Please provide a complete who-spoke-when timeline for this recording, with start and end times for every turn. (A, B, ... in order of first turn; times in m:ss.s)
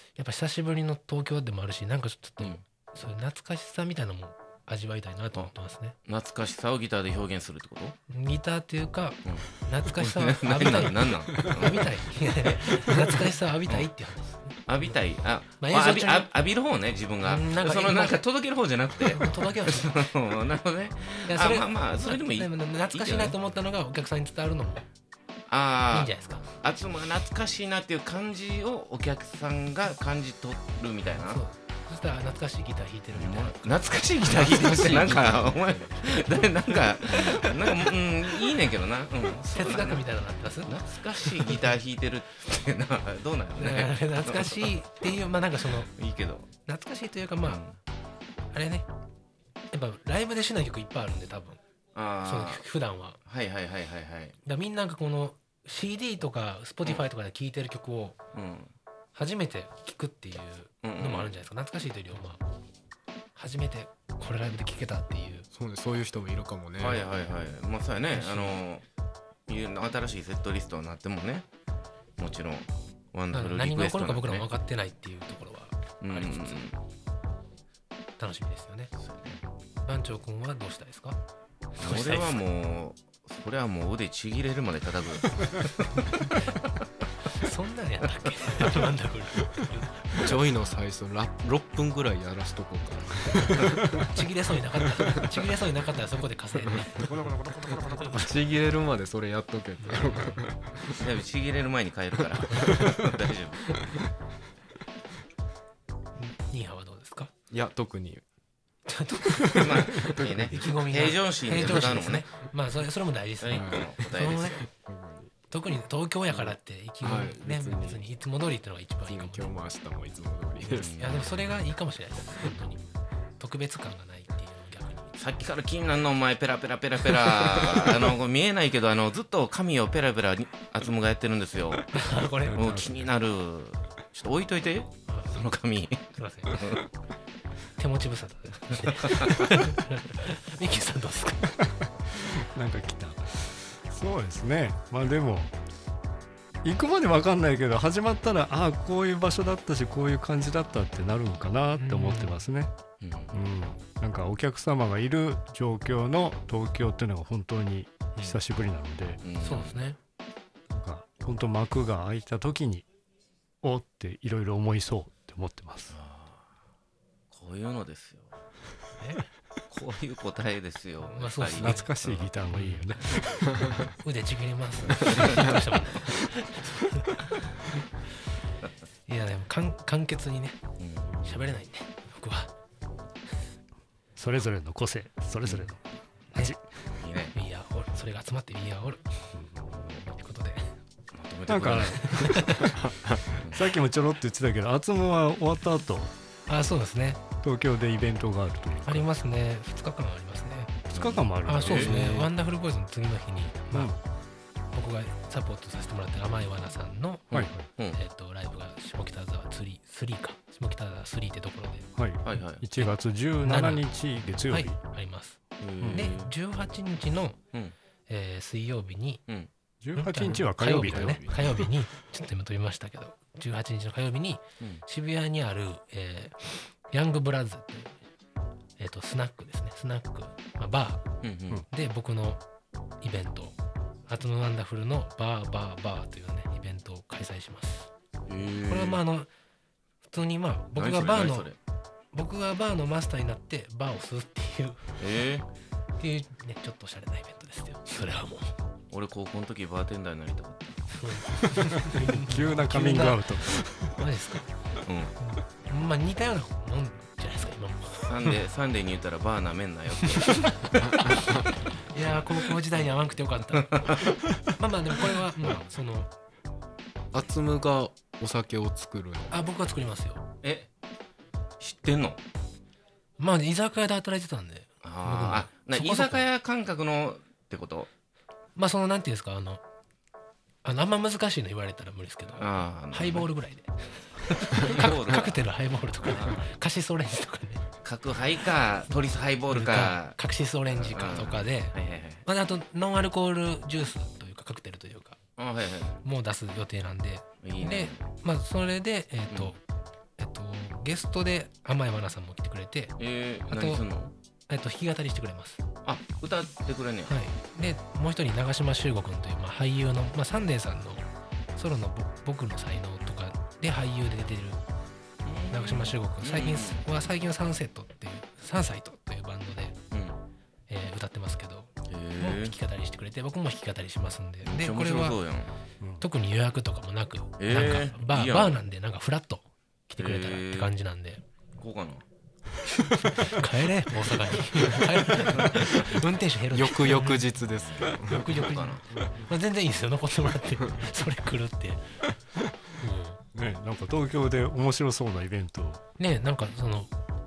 0:00.2-0:06.0 A
0:06.1-0:08.0 B
0:08.1-0:14.7 A
0:09.2-0:11.9 B
0:14.7-0:23.4 B
0:15.6-0:16.3 A
0:17.2-0:18.2 A
0:19.0-0:20.0 A
0:21.3-0:24.9 A
0:25.5-0:31.4 B
0:25.9-0:26.5 A
0:31.3-0:35.5 A
0:33.1-0:40.1 B
0:34.9-0:35.8 C
0:39.4-0:41.6 A
0:40.6-0:44.8 B
0:43.6-0:45.9 A
0:45.7-0:46.5 B
0:46.7-0:47.6 A
0:47.4-0:47.8 B
0:48.5-0:48.9 A
0:49.7-0:51.6 A
0:52.0-0:52.6 B
0:52.2-0:53.2 A
0:53.3-0:54.4 B
0:54.4-0:58.2 A
0:58.3-0:58.7 B
0:59.2-1:02.4 A
1:00.8-1:01.3 B
1:03.4-1:05.5 A
1:05.5-1:07.1 C
1:06.8-1:08.8 B
1:08.1-1:08.6 A
1:09.5-1:11.5 B
1:12.2-1:14.5 B
1:13.3-1:16.6 A
1:16.0-1:16.8 B
1:18.2-1:18.9 A
1:19.0-1:19.4 B
1:19.8-1:21.2 A
1:21.8-1:22.4 A
1:21.8-1:26.5 B
1:27.3-1:30.4 A
1:30.1-1:33.9 C
1:33.9-1:38.1 A
1:38.1-1:41.1 C
1:39.9-1:40.4 A
1:41.0-1:43.8 B
1:42.5-1:42.9 C
1:42.5-1:43.0 A
1:46.2-1:47.3 A
1:47.5-1:48.2 C
1:48.9-1:54.7 A
1:49.4-1:50.5 C
1:49.6-1:52.3 B
1:53.4-1:54.6 B
1:53.5-1:53.9 C
1:54.6-1:55.3 C
1:55.5-1:59.6 A
1:57.0-1:58.0 C
1:59.1-2:01.0 C
2:00.8-2:01.4 B
2:00.8-2:02.8 A
2:03.4-2:05.2 A
2:05.2-2:16.9 B
2:11.9-2:12.8 A
2:12.4-2:13.1 D
2:15.1-2:15.4 A
2:16.1-2:16.6 A
2:17.8-2:21.6 A
2:22.0-2:25.6 D
2:26.6-2:32.7 D
2:31.8-2:32.4 A
2:33.0-2:33.4 B
2:33.3-2:39.2 D
2:39.2-2:39.8 B
2:39.4-2:40.0 A
2:40.7-2:42.9 D
2:43.6-2:45.9 D
2:45.9-2:46.5 B
2:47.3-2:48.3 B
2:49.0-2:49.3 A
2:49.7-2:52.3 B
2:51.1-2:51.9 A
2:51.6-2:53.8 D
2:52.6-2:53.0 A
2:54.0-2:57.8 A
2:55.1-2:55.4 B
2:59.1-3:00.6 A
3:00.8-3:01.2 B
3:01.2-3:02.5 A
3:04.2-3:05.8 D
3:06.4-3:06.9 D
3:07.0-3:07.4 B
3:07.3-3:09.2 A
3:09.4-3:09.8 D
3:10.1-3:10.8 A
3:11.1-3:12.0 B
3:11.5-3:12.9 D
3:12.0-3:12.6 A
3:12.8-3:13.4 C
3:13.5-3:16.2 D
3:16.5-3:17.2 A
3:17.4-3:19.1 D
3:18.8-3:20.8 A
3:20.9-3:21.9 D
3:20.9-3:21.9 B
3:21.4-3:23.9 A
3:21.7-3:22.3 C
3:23.7-3:24.0 D
3:24.7-3:27.3 A
3:27.3-3:28.0 B
3:27.3-3:27.7 D
3:27.9-3:31.9 A
3:32.0-3:34.8 D
3:32.2-3:32.6 B
3:33.4-3:33.9 A
3:34.5-3:37.4 A
3:35.6-3:36.3 B
3:35.8-3:36.1 D
3:38.1-3:39.2 A
3:39.8-3:41.7 D
3:40.0-3:48.0 A
3:40.9-3:41.5 C
3:48.8-3:51.1 A
3:51.2-3:51.6 B
3:51.7-3:52.4 A
3:53.0-3:53.6 A
3:54.1-3:57.9 A
3:58.3-3:59.0 B
3:58.7-3:59.3 A
4:00.0-4:01.5 A
4:00.8-4:01.6 B
4:02.1-4:04.8 A
4:05.0-4:05.5 B
4:06.0-4:08.5 A
4:08.9-4:10.9 B
4:10.9-4:13.3 A
4:11.9-4:14.1 D
4:14.0-4:14.5 A
4:14.8-4:15.1 B
4:15.2-4:18.4 A
4:18.1-4:20.8 B
4:20.2-4:26.1 A
4:20.8-4:21.5 C
4:27.1-4:29.4 C
4:29.3-4:30.2 A
4:30.4-4:30.7 B
4:31.6-4:32.2 B
4:33.2-4:36.3 A
4:34.8-4:37.9 B
4:38.6-4:39.6 A
4:40.6-4:47.7 A
4:42.4-4:43.3 B
4:44.6-4:45.4 B
4:46.0-4:46.5 B
4:47.8-4:50.2 B
4:49.5-4:55.2 A
4:50.7-4:52.2 B
4:55.4-4:56.0 B
4:56.0-4:59.6 A
4:57.4-4:58.0 B
4:59.3-4:59.6 B
5:00.2-5:03.0 A
5:03.0-5:04.1 B
5:03.5-5:03.9 A
5:04.5-5:05.6 A
5:05.8-5:07.2 B
5:07.1-5:14.6 A
5:15.2-5:16.8 B
5:15.5-5:19.8 A
5:19.9-5:20.2 B
5:20.7-5:25.2 A
5:21.9-5:22.5 B
5:24.4-5:25.5 B
5:25.8-5:26.1 D
5:26.0-5:31.2 A
5:27.4-5:28.6 B
5:30.0-5:30.7 B
5:31.6-5:32.0 B
5:32.8-5:37.3 A
5:36.5-5:38.3 C
5:37.8-5:42.0 A
5:38.1-5:38.8 B
5:42.7-5:43.2 A
5:43.3-5:45.8 D
5:46.0-5:46.9 A